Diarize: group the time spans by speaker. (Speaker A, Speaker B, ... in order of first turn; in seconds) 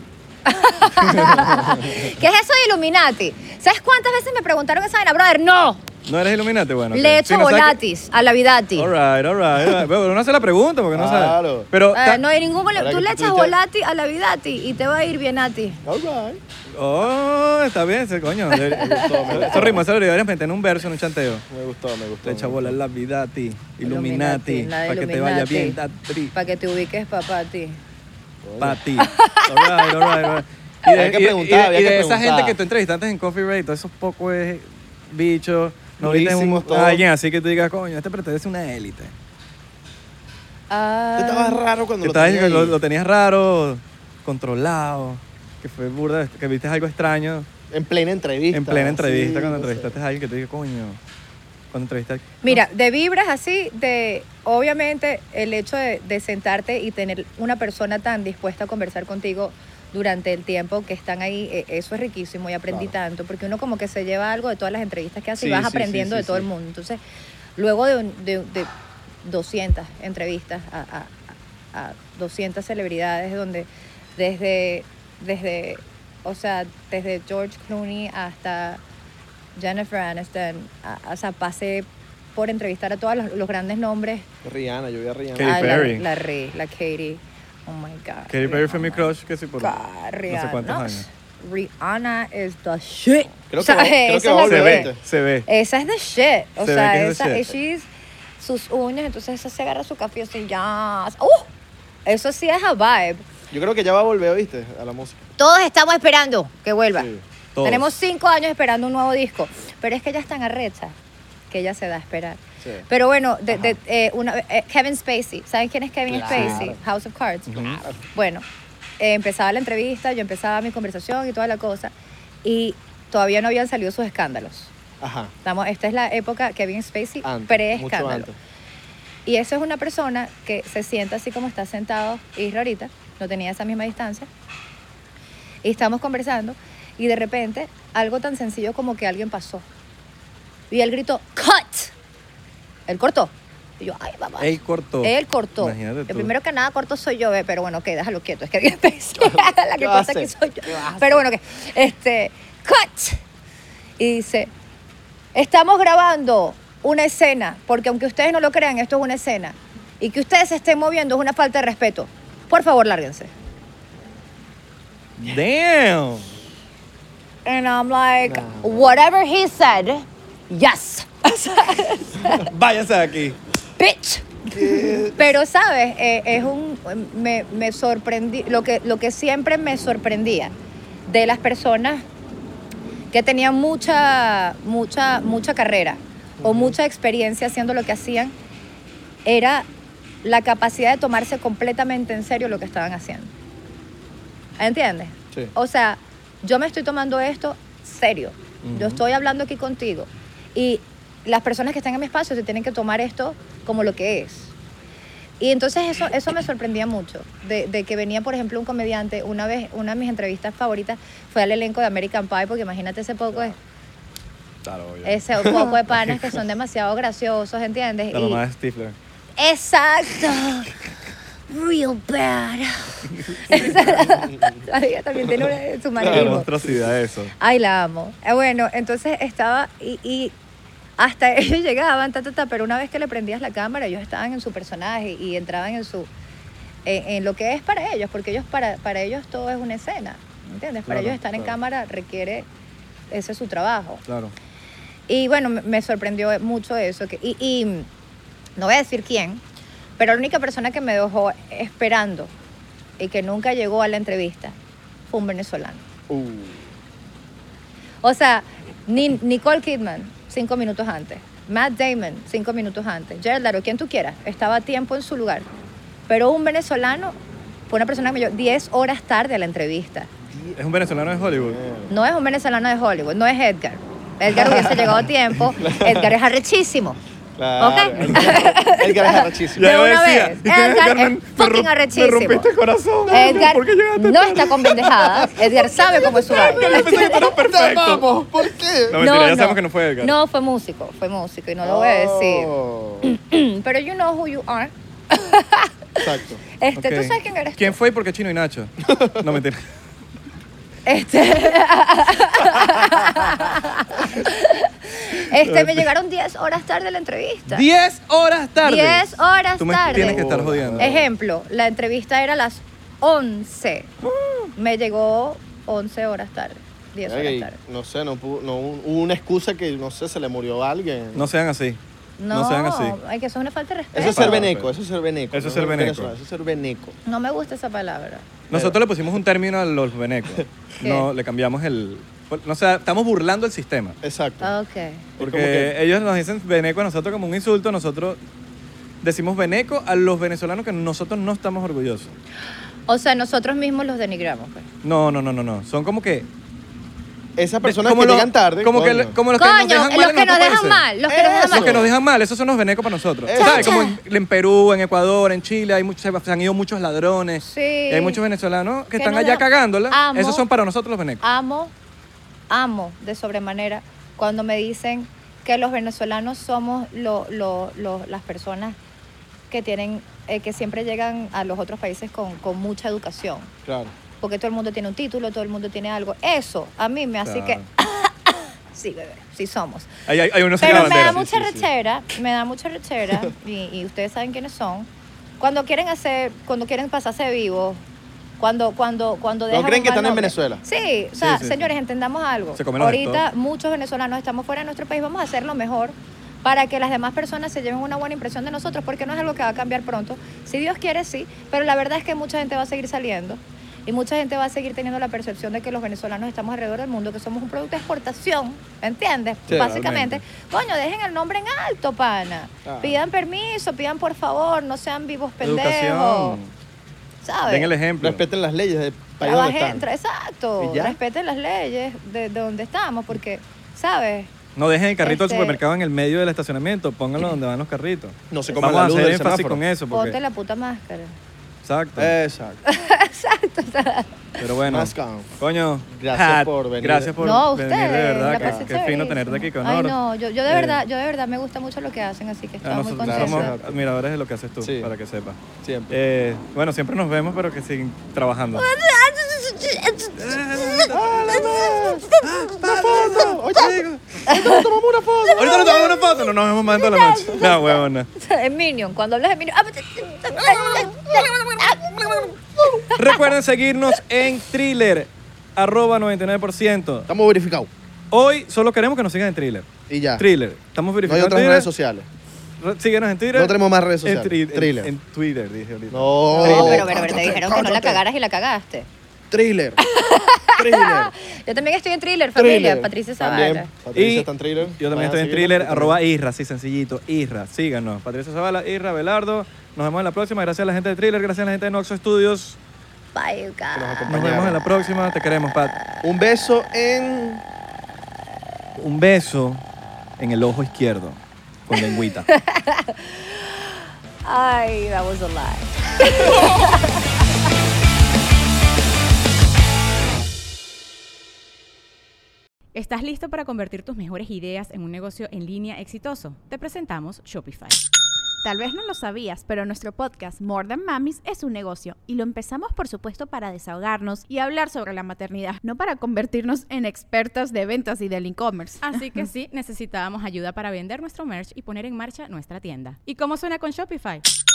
Speaker A: 0.5-5.8, 6.9-8.9, 11.9-15.8, 18.5-19.8, 23.8-25.8, 26.3-27.8, 29.0-30.3, 40.7-41.6, 52.4-67.0, 67.5-68.7, 69.2-71.2, 71.7-78.8, 79.5-84.3, 85.4-94.9, 95.5-101.5, 102.0-103.2, 105.4-107.1, 107.6-111.0, 111.5-118.4, 119.0-121.9, 122.4-124.7, 125.4-128.3, 129.2-134.3, 135.6-139.6, 140.7-141.9, 142.9-153.2, 154.0-154.5, 155.3-163.3, 167.4-172.5, 173.8-180.5, 181.1-182.0, 183.1-188.3, 189.2-189.7, 190.2-193.3, 194.6-204.5, 205.4-213.6, 215.0-218.4, 219.4-220.7, 221.5-226.5, 227.4-230.3, 231.0-236.1, 236.8-242.5, 243.1-244.0, 245.1-247.9, 248.6-249.4, 250.0-252.3, 253.0-254.6, 255.1-255.8, 258.0-265.5, 266.1-267.1, 267.7-270.1, 271.9-277.0, 277.6-282.5, 283.1-287.1, 289.0-297.8, 300.9-307.6, 308.6-310.2, 310.8-313.9, 314.6-317.6, 322.2-324.4, 327.1-328.3, 330.8-331.1, 334.4-335.1, 342.9-344.7, 349.3-351.8, 353.4-354.0, 357.4-358.2, 358.9-360.4, 361.2-361.7, 362.5-368.8, 369.5-373.5, 374.2-379.9, 380.6-384.9, 385.4-387.8, 388.4-416.4, 417.2-417.7, 419.2-424.3, 425.0-425.6, 429.9-431.1, 432.6-434.1, 437.2-443.5, 448.5-452.5, 454.3-454.6, 455.3-463.3, 476.3-478.9, 479.8-483.7, 493.1-494.0, 501.8-503.0, 504.2-506.9
Speaker B: 0.9-1.8, 6.0-7.8, 8.8-12.2, 16.7-21.4, 22.2-26.3, 28.6-39.1, 42.0-47.5, 48.5-51.0, 51.7-52.6, 85.3-86.0, 88.3-89.8, 90.3-91.0, 94.3-95.5, 96.6-97.5, 107.5-107.9, 116.3-116.6, 117.5-117.8, 144.4-146.3, 165.2-166.3, 172.3-173.4, 198.6-199.0, 214.6-216.2, 218.1-218.9, 226.1-227.3, 240.9-241.5, 244.1-244.3, 270.5-271.6, 278.0-278.5, 279.6-285.4, 286.1-288.1, 288.9-290.1, 296.8-299.6, 305.4-305.9, 307.5-310.9, 314.0-314.5, 321.1-321.8, 322.3-323.0, 324.0-324.7, 325.3-326.1, 328.5-334.0, 335.2-338.2, 339.0-342.1, 344.8-346.3, 347.6-350.8, 351.5-361.2, 377.2-377.6, 380.1-381.6, 391.2-391.7, 392.6-393.2, 409.5-410.2, 415.4-416.5, 417.4-418.2, 424.6-430.2, 431.6-432.1, 434.4-439.9, 440.5-440.8, 442.6-448.7, 450.2-454.0, 455.4-458.1, 462.9-467.1, 468.1-471.7, 472.6-477.3, 483.9-492.6, 494.1-495.7, 498.8-499.6, 500.2-502.3
Speaker C: 10.9-11.7, 12.7-13.5, 15.8-16.4, 18.7-19.9, 21.5-22.8, 28.4-28.8, 30.9-32.6, 36.0-37.0, 41.1-42.8, 47.7-50.0, 62.7-62.9, 65.4-66.5, 84.4-85.9, 93.5-95.0, 103.5-105.2, 106.9-107.2, 112.6-112.8, 113.5-113.8, 116.1-116.8, 125.0-125.3, 127.2-128.3, 149.2-151.2, 168.2-169.0, 174.5-175.3, 186.4-186.7, 215.4-215.7, 223.6-224.7, 226.0-226.9, 256.1-256.7, 271.2-271.9, 274.5-274.8, 275.6-276.1, 277.4-279.7, 283.1-283.4, 285.8-289.0, 291.6-293.1, 296.0-296.4, 298.8-299.3, 309.9-311.1, 317.0-321.3, 323.9-326.9, 328.5-328.8, 334.0-334.5, 335.2-335.7, 347.4-349.1, 351.1-351.9, 353.2-353.8, 373.6-373.9, 380.6-381.4, 389.5-390.6, 409.5-409.8, 412.6-413.0, 418.0-419.9, 420.6-421.0, 428.3-429.6, 432.0-432.6, 434.7-435.3, 435.9-437.1, 438.2-438.7, 443.0-443.7, 444.6-444.9, 445.6-445.9, 450.9-452.1, 452.6-455.9, 460.3-462.8, 467.1-467.7, 469.9-470.2, 471.0-472.1, 473.3-474.9, 475.9-478.0, 479.3-479.8, 480.6-481.1, 482.4-486.0, 493.7-494.6, 496.0-497.4
Speaker D: 512.7-517.8, 528.8-534.2
Speaker E: 518.4-529.2